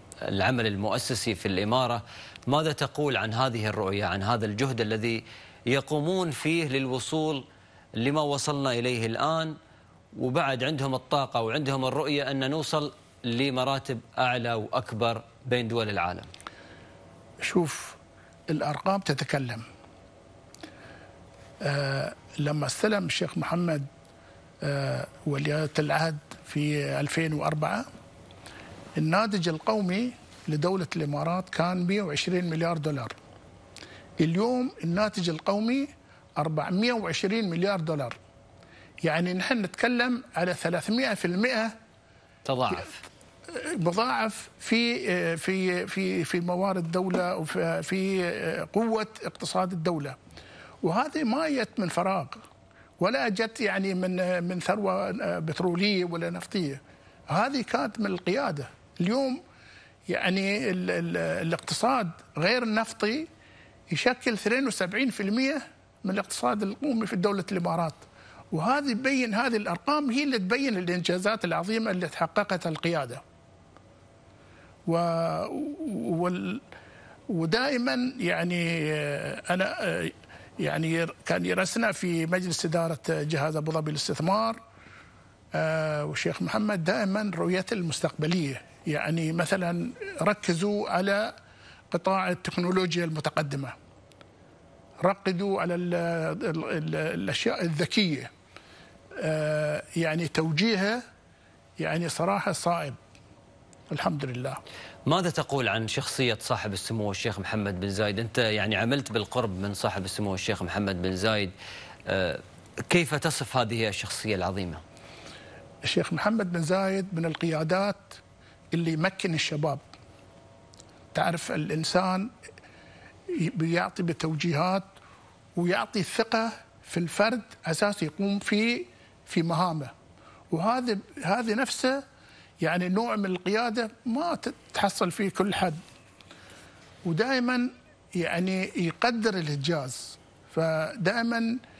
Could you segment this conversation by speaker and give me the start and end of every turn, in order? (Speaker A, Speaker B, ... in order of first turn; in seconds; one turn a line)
Speaker A: 0.2-7.4
Speaker A: 8.0-9.5
Speaker A: 10.2-16.3
Speaker B: 17.4-18.0
Speaker B: 18.5-19.6
Speaker B: 21.6-23.9
Speaker B: 24.6-27.8
Speaker B: 28.9-33.1
Speaker B: 34.2-38.1
Speaker B: 39.0-41.7
Speaker A: 42.5-43.0
Speaker B: 43.5-50.2
Speaker B: 50.8-52.4
Speaker B: 53.0-59.4
Speaker B: 60.1-63.3
Speaker B: 63.9-73.2
Speaker B: 74.9-76.6
Speaker B: 77.3-84.6
Speaker B: 85.5-91.3
Speaker B: 91.9-93.7
Speaker B: 95.0-98.3
Speaker B: 99.2-101.0
Speaker B: 101.8-103.0
Speaker B: 103.9-104.6
Speaker A: 105.1-111.5
Speaker A: 112.1-114.8
Speaker B: 115.8-118.2
Speaker B: 118.7-119.8
Speaker B: 121.1-122.3
Speaker B: 123.3-124.9
Speaker B: 125.5-129.9
Speaker B: 130.5-132.0
Speaker B: 132.6-135.8
Speaker B: 137.0-141.6